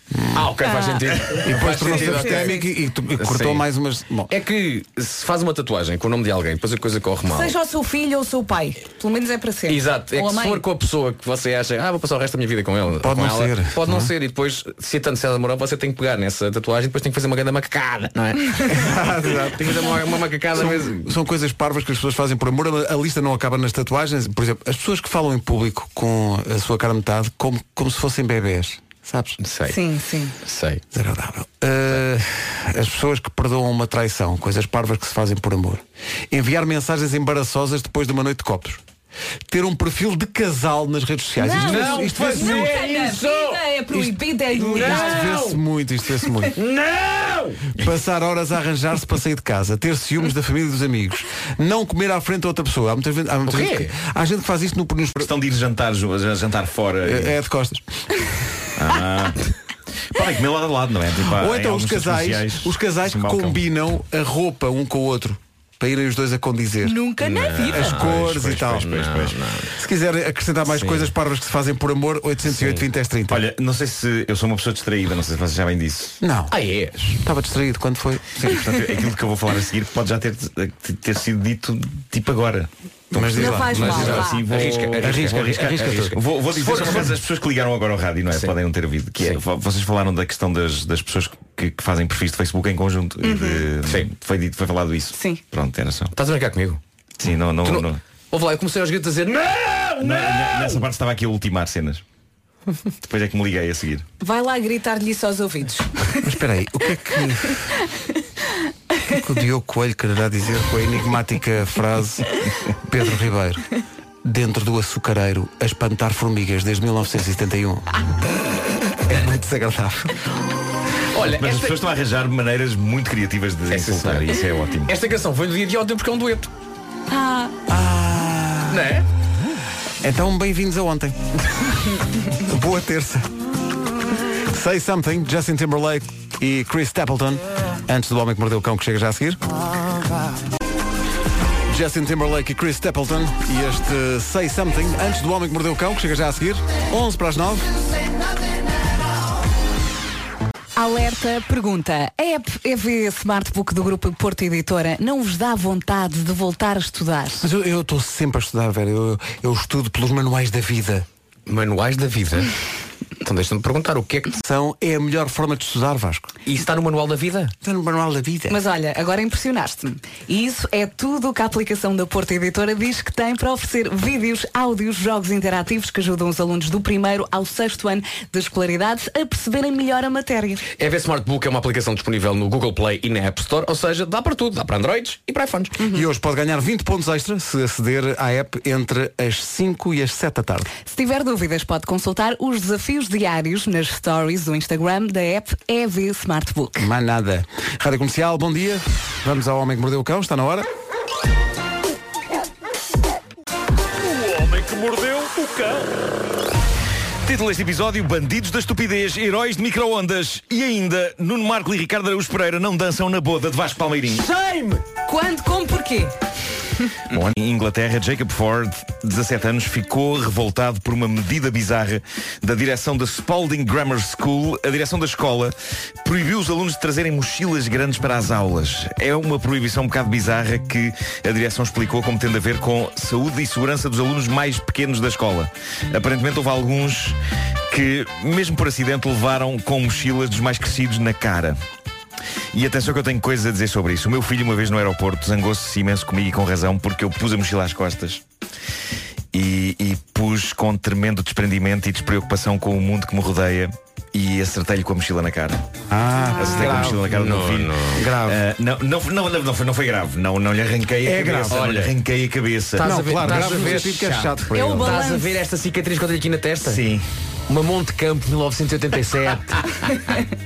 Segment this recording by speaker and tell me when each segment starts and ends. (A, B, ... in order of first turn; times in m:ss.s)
0:00.1-0:00.5 A
0:00.3-0:02.6 B
0:00.6-0:01.0 C
0:01.4-0:04.3 A
0:01.9-0:02.6 C
0:03.2-0:03.6 B
0:04.3-0:07.5 B
0:07.3-0:10.6 C
0:09.7-0:21.1 B
0:13.0-0:14.1 A
0:18.7-0:19.9 A
0:20.5-0:29.4 A
0:29.4-0:29.8 B
0:29.7-0:30.3 C
0:30.4-0:30.8 B
0:30.9-0:38.8 A
0:39.5-0:42.7 A
0:41.4-0:45.4 C
0:41.6-0:43.6 B
0:43.9-0:46.6 A
0:44.6-0:45.6 B
0:46.5-0:47.6 B
0:47.8-0:55.3 A
0:53.5-0:53.9 B
0:55.2-0:57.3 D
0:57.0-0:57.9 A
0:58.8-0:59.4 D
1:00.1-1:03.6 D
1:01.3-1:07.0 A
1:06.8-1:08.0 C
1:07.2-1:09.7 B
1:07.7-1:09.0 A
1:08.1-1:09.3 D
1:09.8-1:13.4 A
1:10.7-1:11.1 B
1:12.5-1:12.8 B
1:13.3-1:16.2 D
1:16.2-1:16.5 A
1:16.5-1:17.2 B
1:17.2-1:18.7 A
1:18.4-1:36.1 D
1:23.1-1:24.3 A
1:23.4-1:24.4 C
1:23.6-1:27.2 B
1:25.0-1:26.2 A
1:28.3-1:28.6 B
1:29.2-1:29.4 B
1:33.2-1:33.6 C
1:33.8-1:34.1 B
1:35.1-1:35.4 C
1:36.1-1:36.8 B
1:37.2-1:38.0 D
1:37.6-1:40.8 B
1:40.0-1:42.0 D
1:43.0-1:44.0 D
1:44.2-1:46.3 C
1:46.2-1:47.7 A
1:49.0-1:53.6 A
1:54.2-1:57.8 A
1:59.0-2:00.2 A
2:01.1-2:01.9 B
2:01.2-2:04.9 D
2:03.7-2:06.5 B
2:07.1-2:07.5 C
2:07.7-2:08.9 A
2:08.7-2:09.0 B
2:10.0-2:11.2 A
2:12.3-2:13.3 A
2:14.4-2:19.4 A
2:21.7-2:27.7 A
2:30.8-2:37.5 C
2:37.4-2:41.0 A
2:41.4-2:42.5 B
2:43.2-2:44.4 B
2:44.4-2:46.3 A
2:46.4-2:47.5 B
2:47.6-2:48.6 A
2:48.5-3:00.6 C
3:00.8-3:05.8 B
3:05.8-3:10.7 A
3:10.8-3:16.9 C
3:16.8-3:20.7 A
3:24.4-3:25.8 D
3:24.4-3:24.8 B
3:27.2-3:34.3 D
3:34.9-3:36.1 C
3:37.1-3:57.2 D
3:57.7-4:01.6 D
4:02.5-4:08.2 D
4:09.3-4:15.6 D
4:15.9-4:17.0 A
4:16.4-4:22.9 D
4:16.6-4:18.1 B
4:17.9-4:18.4 A
4:21.0-4:21.6 A
4:21.5-4:21.9 B
4:22.7-4:26.8 B
4:22.8-4:25.0 A
4:24.5-4:25.4 C
4:26.6-4:27.0 D
4:27.5-4:29.6 B